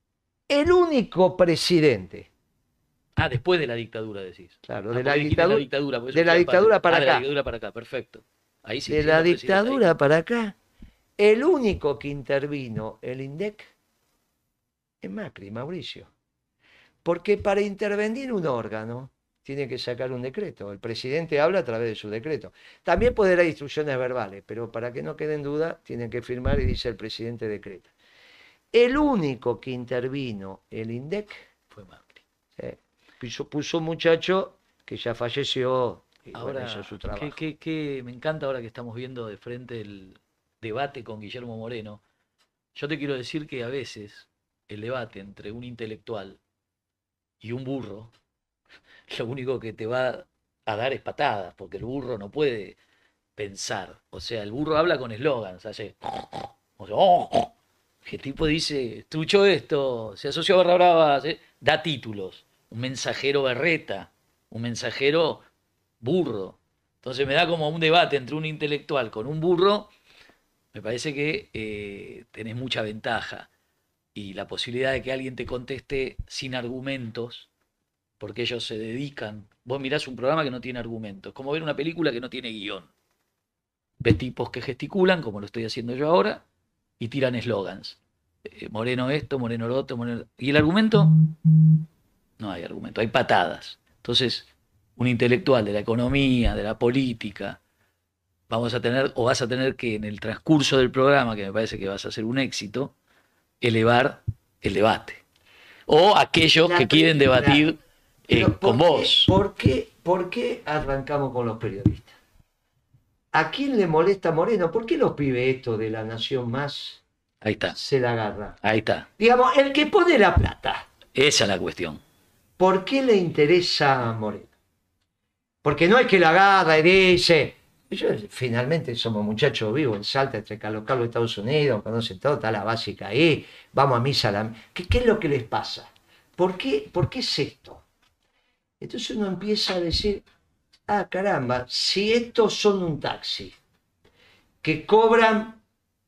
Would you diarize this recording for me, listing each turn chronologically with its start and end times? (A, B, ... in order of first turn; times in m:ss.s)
0:00.5-0:02.3 A
0:03.2-0:09.9 B
0:04.7-0:07.2 A
0:08.9-0:10.6 A
0:11.2-0:13.7 A
0:15.0-0:16.1 A
0:17.0-0:27.9 A
0:28.7-0:31.4 A
0:31.7-0:32.2 B
0:32.6-0:37.4 A
0:36.3-0:42.0 B
0:42.8-0:46.4 B
0:47.4-0:48.1 B
0:49.1-0:52.8 B
0:53.4-0:57.5 B
0:58.0-1:05.4 B
1:06.0-1:09.9 B
1:10.7-1:13.5 B
1:14.2-1:17.5 B
1:18.2-1:22.9 B
1:24.0-1:26.4 B
1:27.0-1:31.2 B
1:32.4-1:34.5 B
1:35.0-1:37.6 B
1:38.5-1:42.9 B
1:43.6-1:45.2 B
1:45.9-1:47.8 B
1:46.6-1:47.7 A
1:48.3-1:49.3 B
1:48.3-1:52.1 A
1:53.3-1:57.0 A
1:57.4-1:57.8 B
1:57.7-1:58.6 A
1:58.6-1:59.1 B
1:59.2-2:00.9 A
2:01.2-2:02.0 B
2:02.6-2:04.5 A
2:05.6-2:17.8 A
2:18.8-2:20.2 A
2:20.9-2:23.6 A
2:24.6-2:25.6 A